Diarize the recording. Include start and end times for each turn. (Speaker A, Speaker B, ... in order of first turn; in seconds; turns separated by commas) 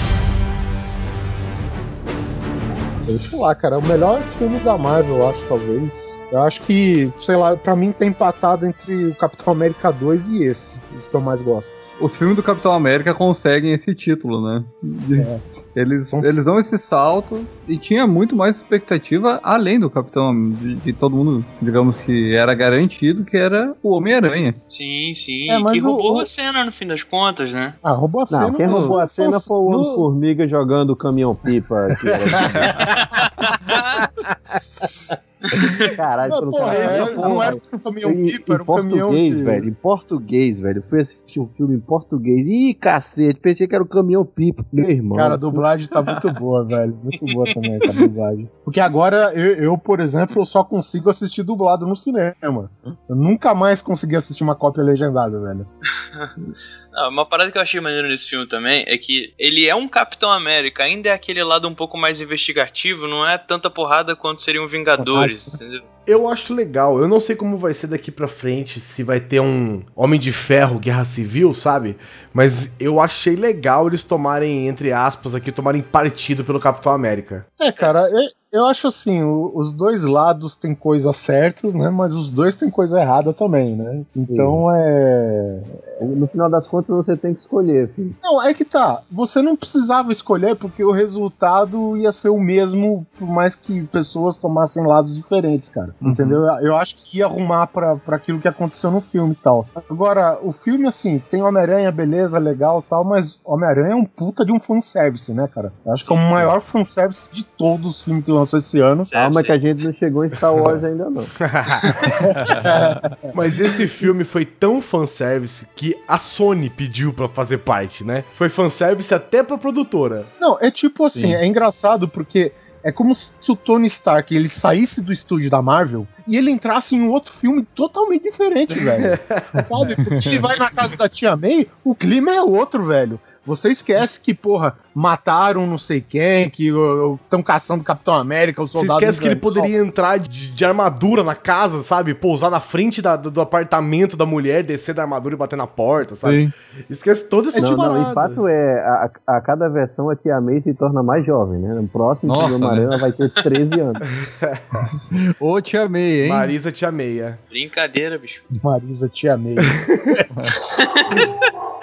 Speaker A: 3.0-11.8, Speaker B: 12.0-24.6, Speaker A: 15.1-15.4, Speaker A: 16.1-16.4, Speaker C: 24.7-27.8, Speaker A: 25.5-26.3, Speaker A: 27.8-29.9, Speaker D: 28.3-32.9, Speaker B: 28.7-28.9, Speaker A: 32.3-34.3, Speaker C: 33.0-34.0, Speaker D: 35.5-37.5, Speaker A: 35.6-39.6, Speaker B: 36.7-37.6, Speaker D: 38.0-45.6, Speaker A: 45.1-55.7, Speaker C: 56.9-65.8, Speaker A: 65.0-65.3, Speaker E: 66.0-77.5, Speaker A: 77.6-85.8, Speaker D: 84.3-84.6, Speaker D: 86.0-88.2, Speaker A: 88.2-109.1, Speaker B: 96.0-96.4, Speaker C: 106.0-106.3, Speaker C: 109.1-109.6, Speaker D: 109.1-111.4, Speaker E: 111.4-111.8, Speaker C: 111.8-112.2, Speaker A: 112.2-113.1, Speaker B: 112.6-113.0, Speaker E: 113.3-120.3, Speaker A: 120.4-139.8, Speaker B: 121.1-121.4, Speaker E: 128.7-129.6, Speaker B: 130.1-130.4, Speaker E: 138.7-148.4, Speaker B: 146.0-146.5, Speaker D: 147.6-154.0, Speaker B: 152.2-152.9, Speaker E: 154.1-154.6, Speaker B: 155.1-156.5, Speaker E: 156.2-157.4, Speaker C: 157.5-158.4, Speaker A: 158.5-160.2, Speaker B: 160.3-160.6, Speaker C: 160.7-161.2